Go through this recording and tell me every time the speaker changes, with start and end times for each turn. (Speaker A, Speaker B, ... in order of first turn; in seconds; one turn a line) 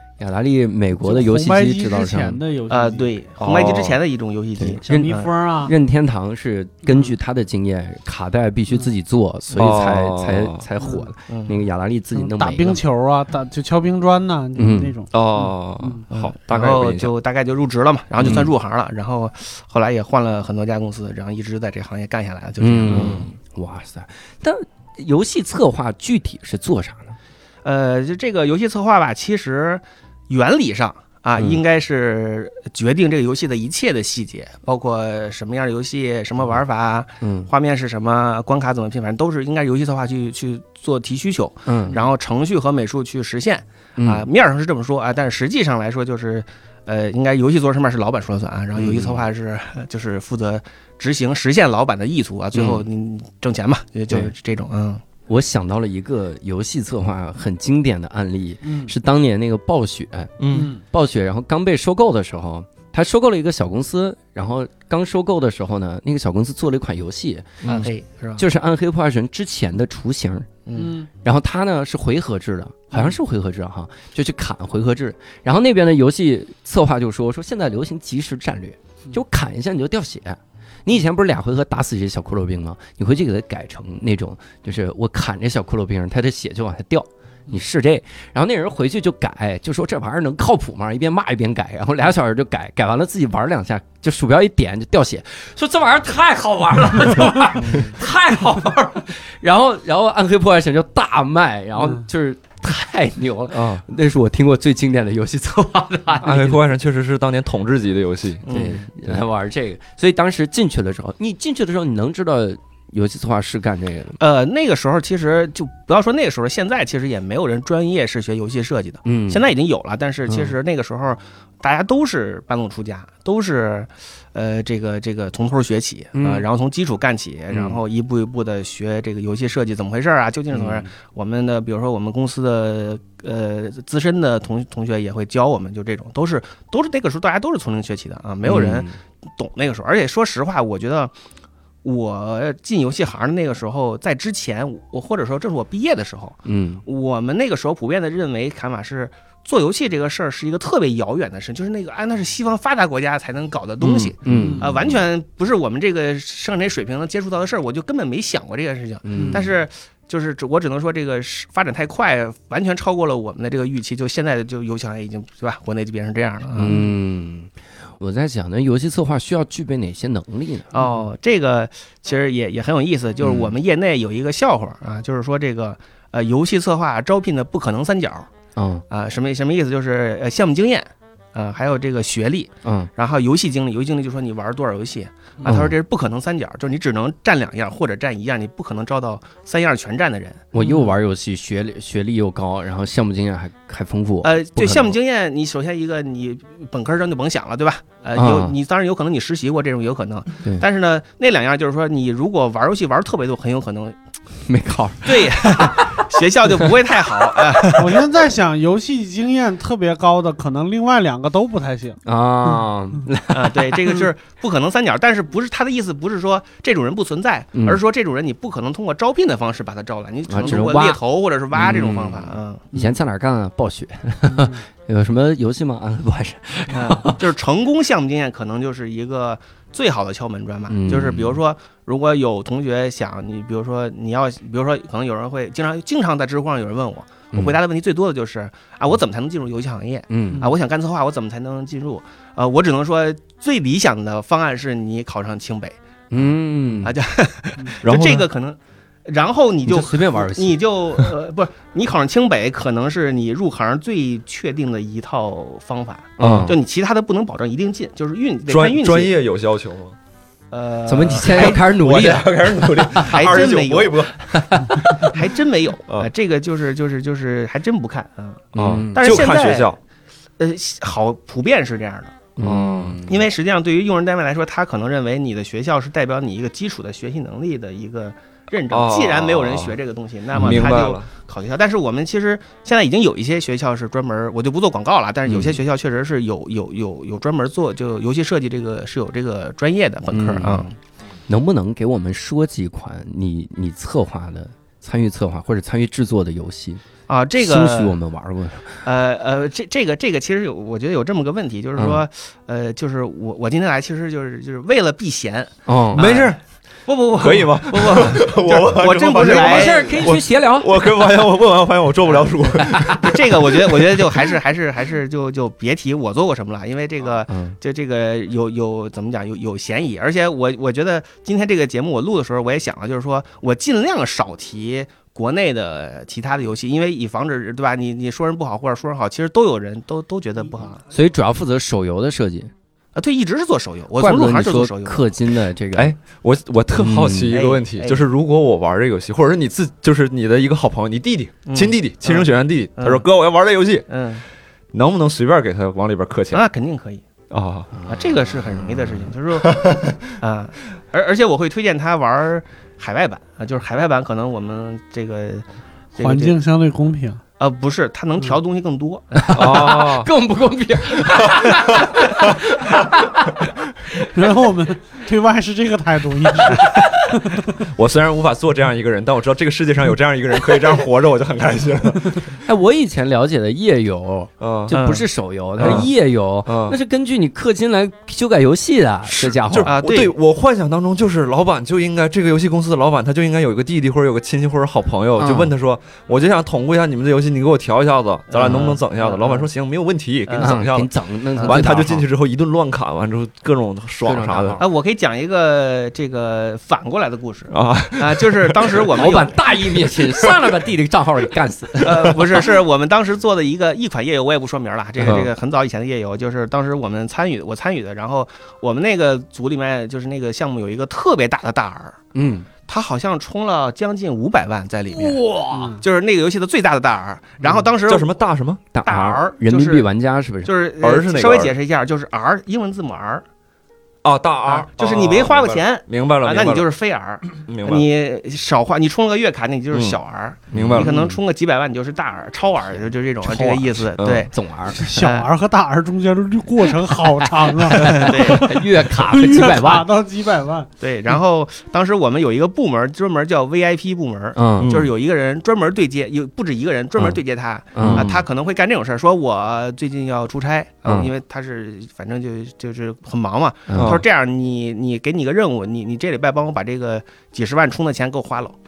Speaker A: 0.2-2.4
Speaker B: 1.0-3.1
Speaker C: 2.7-5.3
Speaker D: 3.4-4.0
Speaker A: 4.6-12.8
Speaker B: 4.8-5.7
Speaker D: 9.5-10.7
Speaker B: 10.8-11.1
Speaker C: 11.3-11.6
Speaker B: 12.1-15.1
Speaker A: 14.6-14.9
Speaker D: 15.1-17.1
Speaker C: 16.1-23.2
Speaker A: 18.2-18.5
Speaker A: 22.6-27.1
Speaker D: 22.9-23.3
Speaker C: 27.6-55.0
Speaker A: 37.2-37.5
Speaker A: 41.6-42.0
Speaker A: 44.0-44.2
Speaker A: 48.7-49.2
Speaker A: 52.5-52.8
Speaker A: 55.3-67.5
Speaker B: 58.6-58.9
Speaker D: 60.4-60.7
Speaker B: 60.5-60.8
Speaker D: 67.6-67.9
Speaker C: 67.6-68.4
Speaker A: 68.4-70.6
Speaker C: 70.7-71.0
Speaker B: 70.7-71.1
Speaker A: 71.2-106.6
Speaker C: 97.6-97.9
Speaker D: 103.5-103.8
Speaker D: 106.2-108.4
Speaker C: 108.4-108.8
Speaker A: 108.5-114.2
Speaker C: 114.2-141.1
Speaker A: 119.0-119.4
Speaker A: 120.2-120.5
Speaker A: 126.2-126.5
Speaker A: 127.5-127.8
Speaker A: 130.5-130.9
Speaker A: 138.4-138.9
Speaker C: 141.8-166.8
Speaker A: 146.4-146.8
Speaker A: 153.9-154.6
Speaker B: 154.2-154.7
Speaker A: 159.0-159.5
Speaker B: 159.2-159.4
Speaker A: 166.6-170.8
Speaker C: 170.7-178.3
Speaker A: 173.2-173.5
Speaker A: 178.6-178.8
Speaker C: 178.9-190.4
Speaker A: 182.6-182.9
Speaker A: 185.4-185.7
Speaker A: 190.5-194.9
Speaker B: 190.6-190.9
Speaker C: 194.2-203.9
Speaker A: 198.1-198.5
Speaker A: 204.4-206.1
Speaker C: 205.0-208.1
Speaker B: 207.8-212.0
Speaker A: 212.0-214.0
Speaker C: 213.3-222.7
Speaker A: 217.5-217.8
Speaker A: 220.3-221.0
Speaker A: 221.5-227.2
Speaker C: 226.7-245.8
Speaker A: 230.7-231.4
Speaker A: 237.3-237.6
Speaker A: 240.1-240.5
Speaker A: 246.1-246.9
Speaker C: 246.8-259.1
Speaker D: 247.8-248.3
Speaker A: 249.7-250.6
Speaker A: 256.2-256.6
Speaker D: 256.2-256.4
Speaker D: 258.4-259.9
Speaker C: 260.5-261.6
Speaker A: 260.9-263.1
Speaker D: 261.3-265.2
Speaker C: 263.0-264.1
Speaker A: 264.3-264.8
Speaker C: 265.0-269.8
Speaker D: 268.5-269.8
Speaker A: 268.6-269.1
Speaker C: 270.4-272.2
Speaker A: 272.4-273.2
Speaker D: 272.4-273.0
Speaker C: 273.1-290.7
Speaker D: 278.7-279.8
Speaker A: 280.4-280.7
Speaker D: 280.4-281.1
Speaker A: 290.1-290.7
Speaker A: 291.3-296.8
Speaker C: 297.1-297.9
Speaker A: 297.4-298.8
Speaker C: 298.8-310.1
Speaker A: 305.6-306.0
Speaker D: 305.9-306.4
Speaker D: 307.2-314.1
Speaker A: 309.2-310.7
Speaker A: 312.6-313.0
Speaker C: 313.0-330.8
Speaker A: 317.3-317.6
Speaker A: 330.9-332.5
Speaker C: 332.9-335.1
Speaker A: 334.0-335.9
Speaker D: 335.8-343.9
Speaker A: 336.8-337.3
Speaker C: 337.3-338.0
Speaker C: 341.5-343.1
Speaker C: 343.9-344.2
Speaker D: 344.7-346.4
Speaker C: 346.3-347.0
Speaker D: 347.3-347.7
Speaker A: 347.7-348.9
Speaker C: 347.9-356.4
Speaker D: 349.5-349.9
Speaker B: 356.0-357.2
Speaker C: 357.4-359.1
Speaker A: 359.1-363.5
Speaker D: 359.3-360.1
Speaker B: 364.1-367.6
Speaker D: 367.6-372.3
Speaker A: 372.4-379.7
Speaker D: 374.4-374.7
Speaker C: 374.7-375.1
Speaker D: 375.6-375.9
Speaker D: 376.4-376.8
Speaker D: 379.1-390.9
Speaker C: 379.6-380.1
Speaker A: 385.2-385.5
Speaker C: 388.3-389.5
Speaker A: 388.4-388.8
Speaker C: 390.3-390.6
Speaker A: 390.4-392.1
Speaker D: 391.4-394.6
Speaker A: 394.0-394.6
Speaker C: 394.6-399.4
Speaker D: 397.5-398.8
Speaker A: 398.9-402.4
Speaker C: 401.8-412.0
Speaker D: 405.0-405.3
Speaker A: 412.1-412.5
Speaker C: 412.6-415.2
Speaker A: 414.9-415.8
Speaker B: 415.5-415.8
Speaker C: 415.8-418.1
Speaker D: 417.8-418.6
Speaker A: 418.7-420.5
Speaker C: 418.8-419.9
Speaker C: 420.4-423.2
Speaker D: 420.8-421.5
Speaker D: 424.0-426.7
Speaker C: 424.4-435.3
Speaker D: 427.4-427.9
Speaker D: 429.7-430.0
Speaker A: 430.5-431.1
Speaker D: 430.5-430.9
Speaker A: 433.2-434.8
Speaker D: 434.0-434.3
Speaker B: 434.8-440.7
Speaker A: 437.7-439.9
Speaker C: 437.9-438.5
Speaker C: 440.8-458.6
Speaker A: 444.3-444.7
Speaker D: 444.6-444.9
Speaker A: 447.7-448.1
Speaker D: 447.8-448.2
Speaker A: 453.7-454.0